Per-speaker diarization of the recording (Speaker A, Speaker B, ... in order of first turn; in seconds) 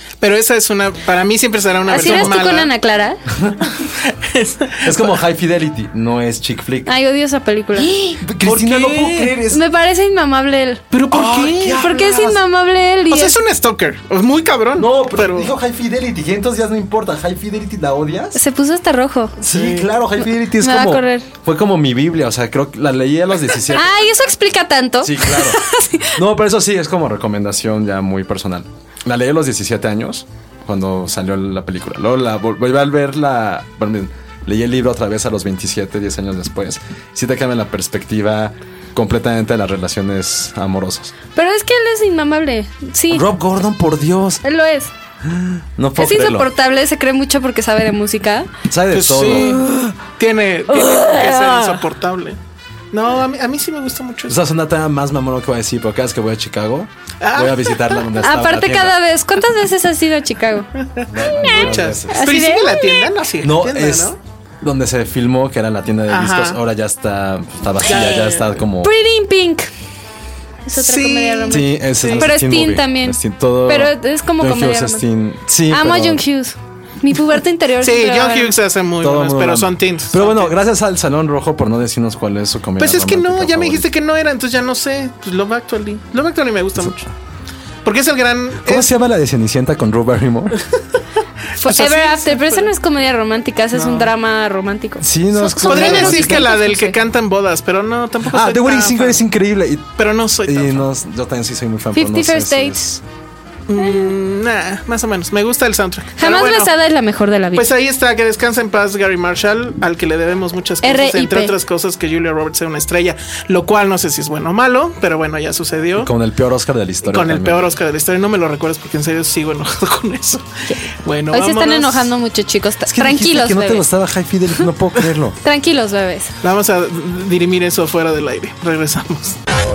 Speaker A: 0.2-2.7, 3.8-5.2, 8.0-9.4, 10.9-12.4, 13.1-15.5, 19.5-19.9, 48.9-49.7, 50.2-52.4, 52.9-54.4, 57.2-58.0, 60.8-64.2, 66.1-66.6, 67.8-68.6, 70.7-72.3, 77.8-80.5, 82.8-87.1, 87.8-88.9, 91.7-92.7, 93.7-94.1, 95.7-99.2, 100.0-100.9, 103.7-106.7, 107.5-116.1, 117.0-122.1, 126.4-129.4
Speaker B: 1.9-3.2, 6.8-7.9, 9.5-10.8, 11.8-13.3, 18.3-19.3, 20.6-21.3, 23.7-26.1, 41.4-43.2, 44.4-44.9, 46.0-48.5, 50.7-51.7, 58.2-60.7, 61.3-63.1, 68.8-69.7, 70.7-71.6, 72.2-75.0, 75.7-78.5, 91.6-97.0, 102.0-103.0, 103.8-104.1, 106.2-107.7, 110.8-111.5, 120.7-123.8, 125.4-126.3
Speaker C: 4.8-6.9, 8.2-9.6, 11.1-12.3, 14.8-18.4, 19.4-23.9, 25.0-41.1, 43.1-44.4, 45.2-46.5, 48.7-49.9, 54.3-59.0, 61.1-62.3, 63.4-68.9, 71.5-76.2, 79.0-83.9, 88.6-90.6, 95.0-96.5, 98.2-99.9, 100.5-103.0, 116.0-117.7, 122.9-125.4